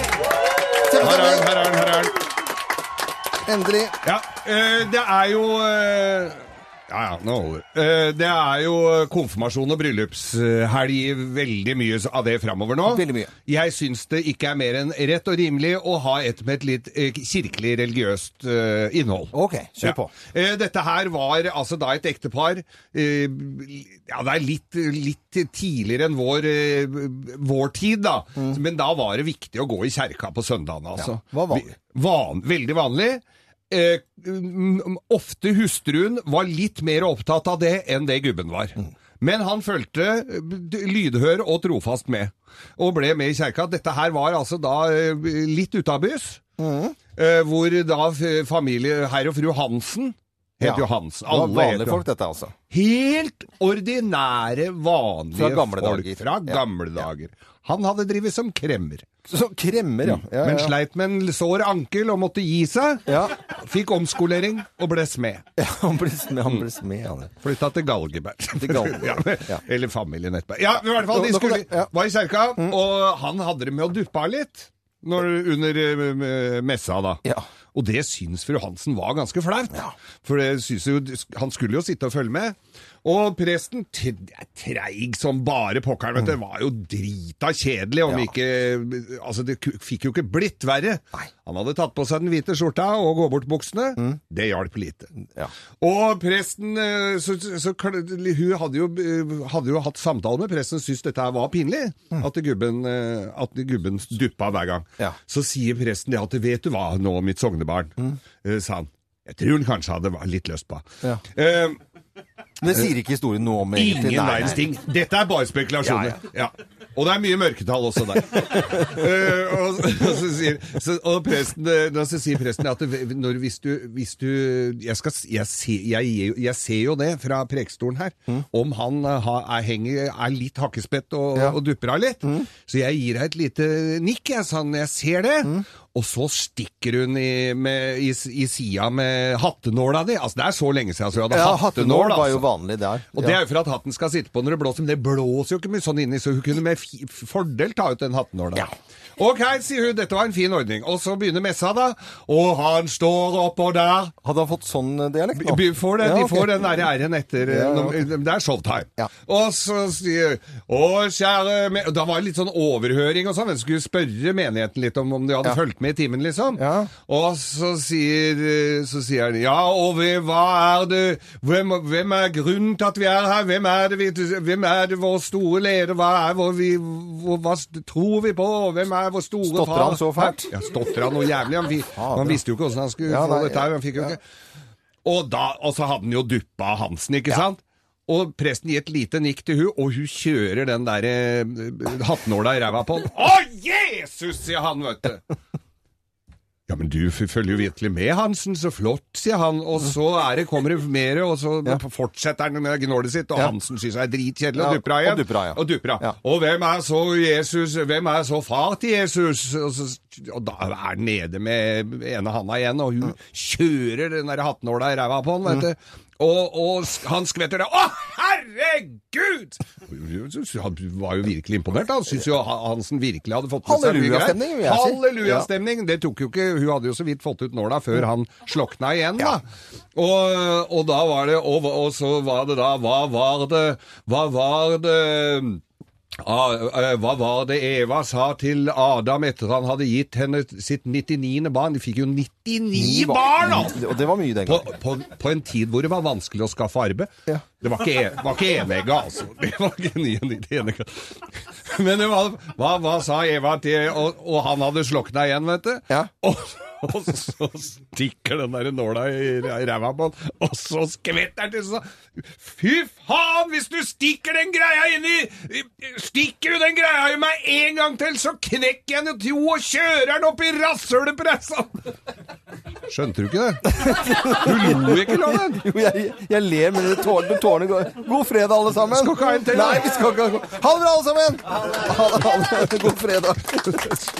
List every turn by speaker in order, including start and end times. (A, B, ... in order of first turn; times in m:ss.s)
0:00.9-0:01.5 A
0:01.0-0:02.2 B
0:03.4-0:04.0 A
0:04.0-0:46.4 B
0:12.9-0:13.3 A
0:19.3-0:20.1 A
0:31.0-0:31.7 A
0:46.6-0:47.0 A
0:47.2-0:52.0 B
0:50.6-0:52.5 A
0:52.7-0:59.1 B
0:55.3-0:56.6 A
0:59.3-1:00.7 A
1:00.0-1:05.4 B
1:03.1-1:03.4 A
1:05.6-1:07.3 A
1:07.4-1:35.2 B
1:08.6-1:09.6 A
1:10.8-1:11.9 A
1:35.8-1:51.8 B
1:52.6-1:54.6 A
1:53.7-2:22.5 B
2:21.3-2:23.4 A
2:23.1-2:34.2 B
2:34.2-2:36.8 A
2:35.4-3:04.2 B
2:37.4-2:38.1 A
2:46.6-2:46.9 A
2:59.4-3:00.5 A
3:02.0-3:02.4 A
3:03.0-3:04.1 A
3:05.0-3:15.2 B
3:16.7-3:49.4 B
3:24.6-3:26.1 A
3:43.6-3:45.5 A
3:50.0-3:55.6 B
3:56.2-4:03.8 B
4:02.7-4:04.7 A
4:04.5-4:07.1 B
4:07.6-4:31.7 B
4:32.9-4:35.6 B
4:33.7-4:44.0 A
4:38.9-4:40.0 B